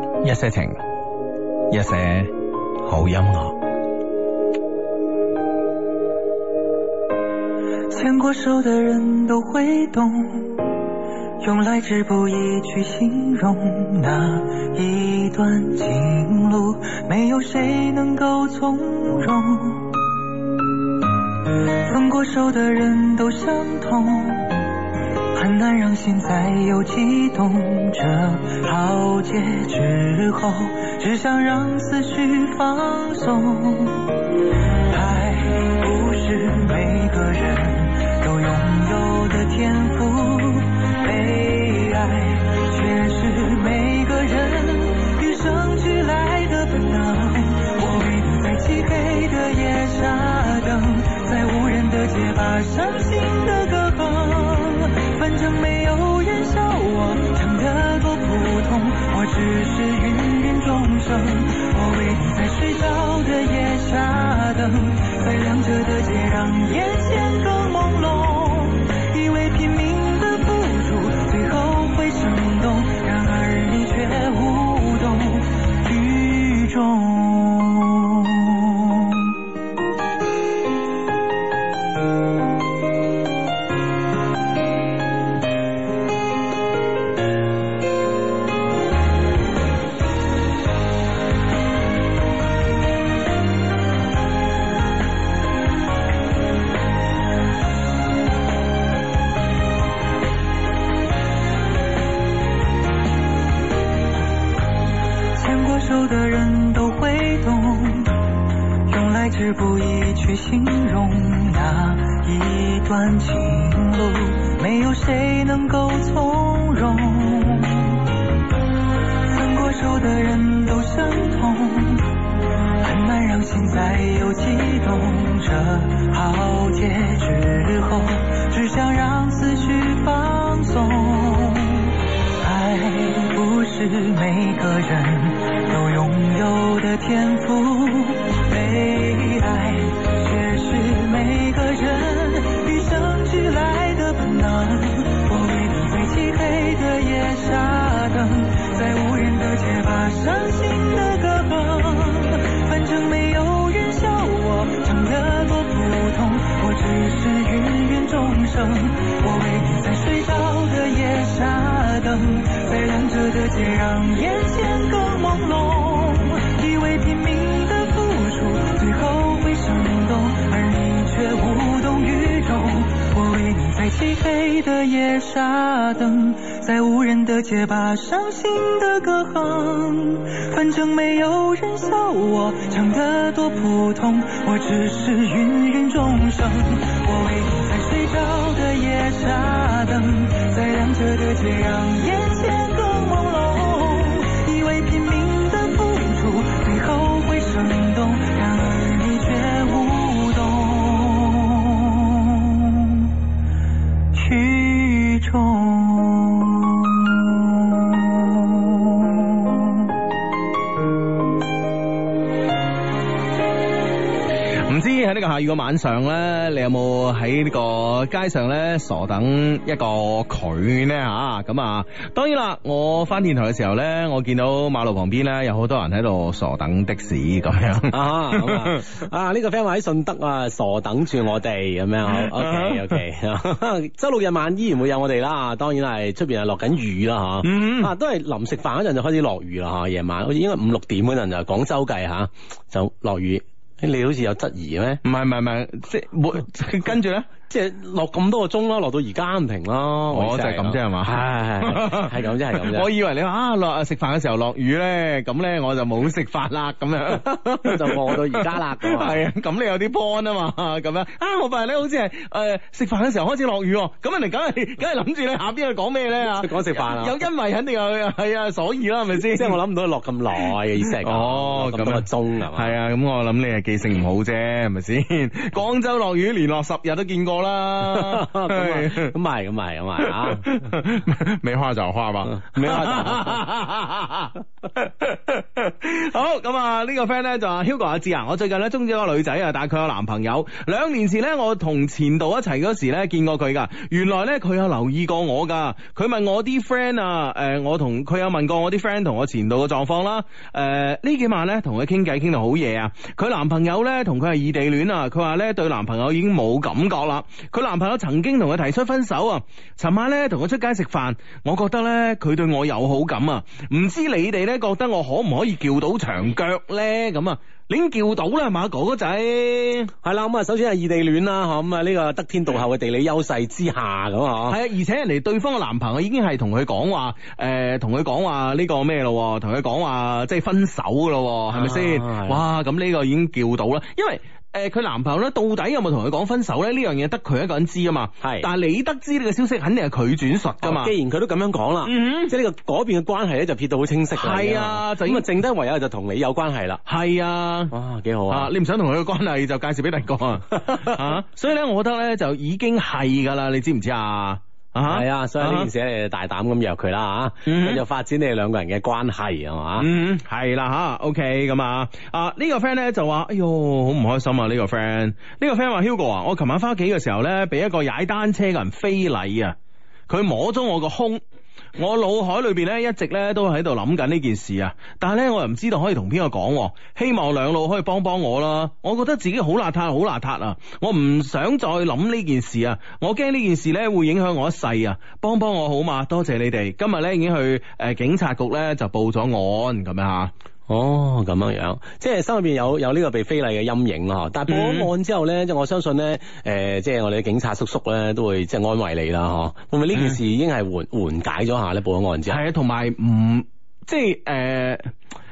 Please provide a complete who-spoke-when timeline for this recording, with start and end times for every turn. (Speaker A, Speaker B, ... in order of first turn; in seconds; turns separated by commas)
Speaker A: 0.2-0.8, Speaker A: 1.7-3.6, Speaker B: 7.9-10.8, Speaker B: 11.4-20.2, Speaker B: 21.8-24.7, Speaker B: 25.3-79.4, Speaker B: 105.3-108.2, Speaker B: 108.9-118.1, Speaker B: 119.3-122.2, Speaker B: 122.8-203.1, Speaker B: 204.1-209.9, Speaker A: 214.5-228.8, Speaker C: 227.9-245.0, Speaker A: 232.1-233.0, Speaker A: 237.4-237.9, Speaker A: 245.0-247.3, Speaker C: 247.5-252.9, Speaker A: 250.1-269.6, Speaker C: 257.6-259.2, Speaker C: 266.2-267.2, Speaker C: 269.3-272.7, Speaker A: 270.8-279.1, Speaker C: 277.8-280.7, Speaker A: 280.0-319.9, Speaker C: 282.2-283.4, Speaker C: 320.0-324.6, Speaker A: 324.5-340.9, Speaker C: 331.5-332.4, Speaker C: 338.2-338.5, Speaker C: 340.6-346.8, Speaker A: 341.8-342.3, Speaker A: 344.1-345.3, Speaker A: 346.9-347.7, Speaker C: 347.7-348.5, Speaker A: 348.3-355.7, Speaker C: 350.7-351.0, Speaker C: 354.9-359.9, Speaker A: 357.4-357.8, Speaker A: 359.8-369.6, Speaker A: 370.1-371.2, Speaker A: 371.8-390.3, Speaker C: 390.7-402.4, Speaker A: 394.5-394.9, Speaker A: 402.3-404.9